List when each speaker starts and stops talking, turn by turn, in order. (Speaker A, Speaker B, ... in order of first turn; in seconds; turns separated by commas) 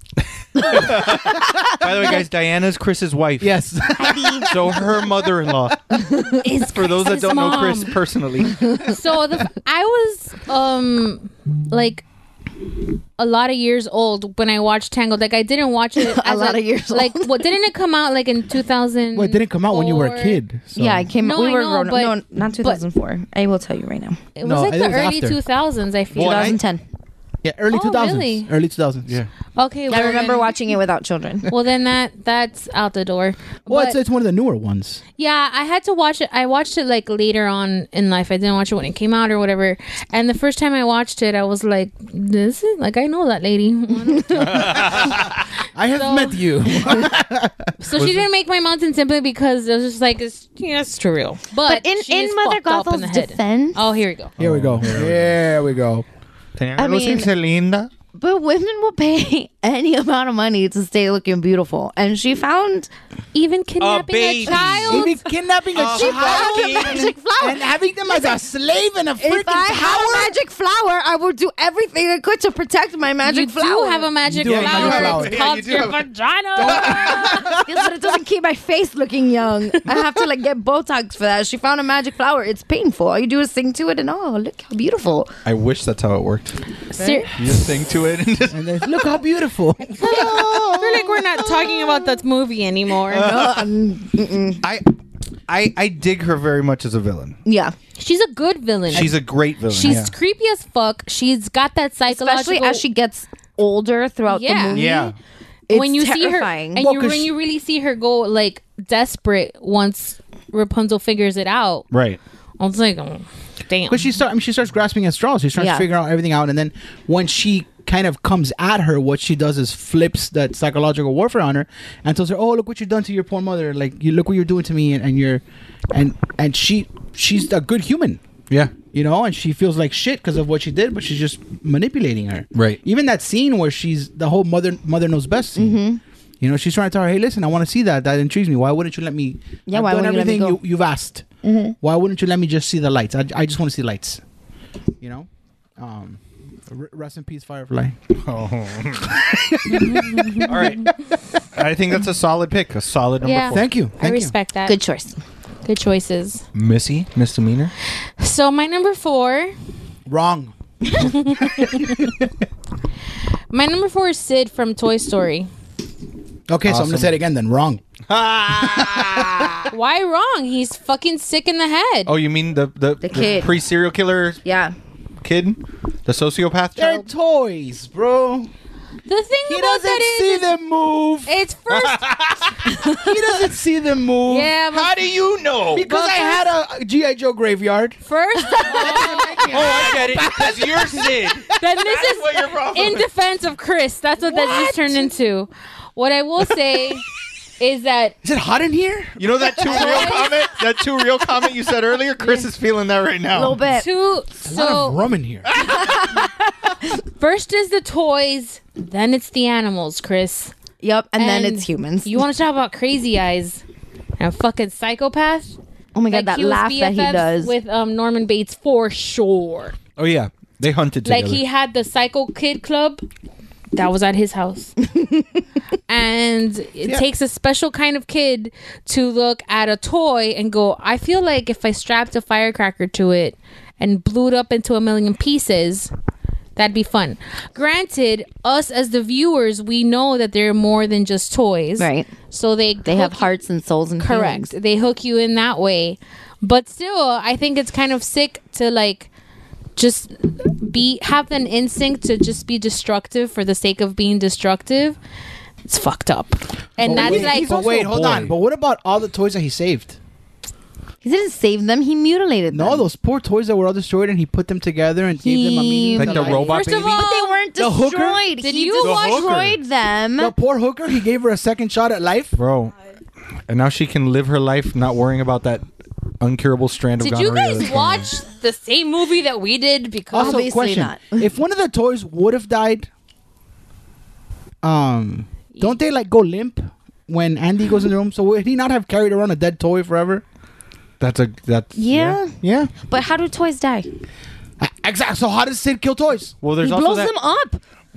Speaker A: 0.6-3.6, Speaker B: 0.6-1.0, Speaker C: 3.4-5.7, Speaker B: 4.0-4.5, Speaker A: 4.4-5.9, Speaker B: 6.0-6.4, Speaker D: 6.4-8.0, Speaker A: 6.6-8.9, Speaker D: 8.8-12.0, Speaker D: 13.2-20.4, Speaker B: 16.0-17.4, Speaker C: 19.1-21.1, Speaker B: 20.7-24.2, Speaker D: 21.2-22.8, Speaker D: 24.4-26.6, Speaker C: 24.4-25.4, Speaker A: 26.1-26.6, Speaker B: 26.1-26.8, Speaker C: 27.4-29.2, Speaker D: 27.7-28.5, Speaker D: 29.6-30.5, Speaker B: 29.9-31.5, Speaker D: 31.5-34.0, Speaker C: 33.7-35.0, Speaker D: 35.2-45.2, Speaker A: 44.3-45.4, Speaker C: 45.7-47.7, Speaker D: 45.9-46.4, Speaker D: 47.8-54.3, Speaker A: 47.9-48.2, Speaker B: 51.6-53.8, Speaker A: 54.4-55.4, Speaker C: 54.4-56.0, Speaker A: 56.6-57.9, Speaker B: 56.8-57.3, Speaker B: 58.1-62.9, Speaker D: 63.3-65.3, Speaker A: 63.8-65.1, Speaker C: 64.5-70.3, Speaker A: 65.7-67.1, Speaker B: 65.9-68.4, Speaker B: 69.2-74.1, Speaker D: 73.2-77.5, Speaker C: 74.2-75.5, Speaker A: 74.4-76.0, Speaker C: 76.5-77.8, Speaker A: 76.6-77.5, Speaker B: 77.4-85.3, Speaker A: 85.4-86.5, Speaker D: 86.9-87.3, Speaker B: 87.0-87.2, Speaker A: 87.3-89.1, Speaker C: 88.5-90.4, Speaker D: 89.9-93.3, Speaker A: 90.0-92.2, Speaker A: 93.1-93.7, Speaker B: 93.1-94.6, Speaker A: 94.6-95.0, Speaker A: 95.5-97.4, Speaker B: 97.4-97.7, Speaker D: 98.0-102.8, Speaker A: 98.9-100.1, Speaker B: 102.1-105.1, Speaker D: 104.3-104.9, Speaker A: 104.7-105.2, Speaker B: 105.7-106.8, Speaker D: 105.7-111.8, Speaker C: 106.8-107.3, Speaker A: 111.9-112.2, Speaker D: 112.6-114.1, Speaker C: 113.9-128.2, Speaker B: 115.6-115.9, Speaker A: 128.5-128.7, Speaker C: 128.8-135.8, Speaker A: 132.5-132.8, Speaker B: 135.6-136.0, Speaker C: 136.4-141.2, Speaker B: 139.7-140.6, Speaker B: 141.4-141.7, Speaker C: 141.8-144.2, Speaker C: 145.0-148.0, Speaker A: 148.1-149.5, Speaker C: 149.0-150.7, Speaker A: 150.3-151.0, Speaker A: 151.5-153.7, Speaker D: 153.2-154.8, Speaker C: 153.5-154.3, Speaker B: 154.7-155.2, Speaker D: 155.6-156.4, Speaker A: 156.5-157.7, Speaker D: 158.2-159.5, Speaker C: 160.1-162.1, Speaker D: 161.0-161.9, Speaker D: 163.5-165.5, Speaker C: 166.5-167.8, Speaker A: 166.7-167.1, Speaker A: 168.1-169.7, Speaker C: 168.6-169.5, Speaker D: 169.7-172.1, Speaker A: 172.1-174.4, Speaker B: 173.0-173.6, Speaker B: 174.4-174.7, Speaker A: 175.2-177.1, Speaker C: 176.8-178.5, Speaker D: 179.1-180.5, Speaker C: 179.4-181.3, Speaker D: 181.2-182.1, Speaker A: 181.7-182.7, Speaker D: 182.7-183.2, Speaker C: 182.8-184.5, Speaker D: 184.2-185.0, Speaker A: 184.7-186.0, Speaker C: 185.7-191.6, Speaker D: 185.9-186.4, Speaker D: 188.1-189.9, Speaker A: 188.7-193.1, Speaker D: 191.6-197.0, Speaker C: 194.6-194.9, Speaker D: 197.6-198.2, Speaker C: 198.2-199.8, Speaker A: 199.2-203.6, Speaker D: 199.6-200.4, Speaker D: 202.2-202.5, Speaker B: 203.3-203.9, Speaker D: 203.7-205.0, Speaker C: 204.4-205.5, Speaker A: 205.6-205.9, Speaker D: 207.0-210.5, Speaker B: 210.8-212.2, Speaker D: 211.2-213.6, Speaker D: 214.2-215.6, Speaker B: 215.9-217.5, Speaker D: 216.1-219.8, Speaker A: 220.0-221.4, Speaker D: 221.0-223.0, Speaker D: 223.7-224.7, Speaker B: 224.9-225.2, Speaker D: 225.9-235.9, Speaker D: 236.6-243.3, Speaker B: 241.8-242.1, Speaker B: 242.8-244.5, Speaker D: 244.0-249.1, Speaker D: 249.8-255.0, Speaker D: 255.7-257.5, Speaker C: 256.8-260.0, Speaker A: 256.8-258.3, Speaker B: 261.0-262.8, Speaker C: 262.5-267.0, Speaker B: 265.2-270.3, Speaker A: 265.9-267.0, Speaker D: 266.2-267.4, Speaker C: 267.6-268.2, Speaker D: 268.4-269.3, Speaker A: 268.8-269.6, Speaker C: 270.2-272.4, Speaker A: 272.3-272.7, Speaker A: 273.5-275.6, Speaker A: 276.2-278.1, Speaker D: 277.0-280.5, Speaker C: 280.1-282.9, Speaker B: 280.1-281.3, Speaker C: 284.6-290.2, Speaker A: 291.0-292.7, Speaker B: 291.7-293.9, Speaker C: 294.6-296.4, Speaker A: 296.4-297.1, Speaker B: 296.6-297.6